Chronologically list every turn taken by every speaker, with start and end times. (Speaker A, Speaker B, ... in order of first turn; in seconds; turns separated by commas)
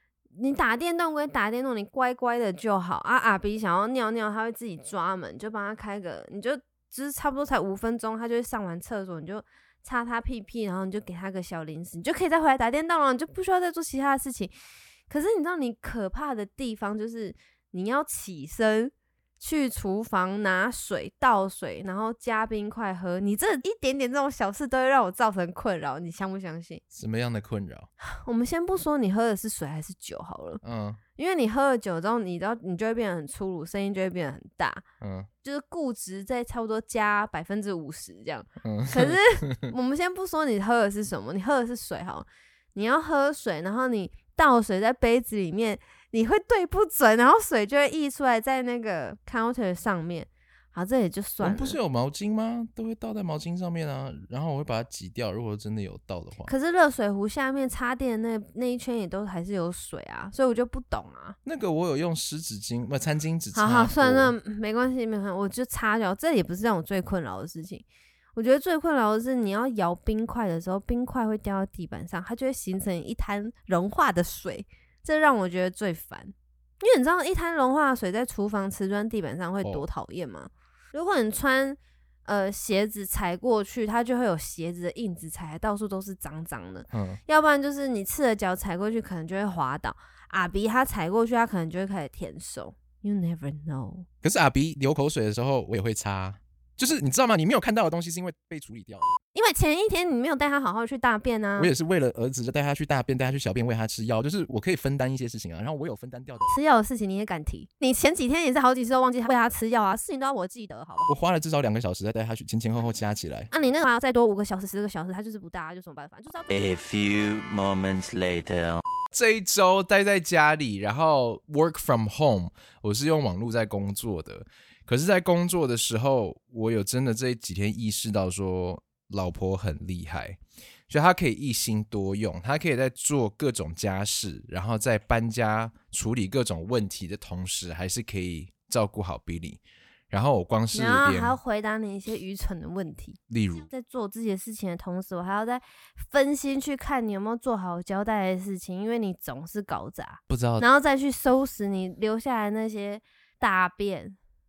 Speaker A: 0.3-14.5, Speaker A: 15.1-26.8, Speaker B: 26.9-27.9, Speaker A: 28.0-30.6, Speaker B: 30.6-31.0, Speaker A: 31.2-34.8, Speaker B: 35.0-35.3, Speaker A: 35.4-51.8, Speaker B: 38.6-39.7, Speaker B: 51.4-56.5, Speaker A: 56.5-61.4, Speaker B: 61.5-64.3, Speaker A: 63.5-94.1, Speaker B: 79.6-79.9, Speaker B: 86.9-87.2, Speaker B: 94.2-99.1, Speaker A: 99.3-101.7, Speaker B: 101.6-106.5, Speaker A: 106.5-111.1, Speaker B: 111.1-113.5, Speaker A: 113.5-116.5, Speaker C: 116.5-118.8, Speaker B: 119.1-141.4, Speaker A: 140.7-154.2, Speaker B: 143.3-143.7, Speaker B: 150.3-150.7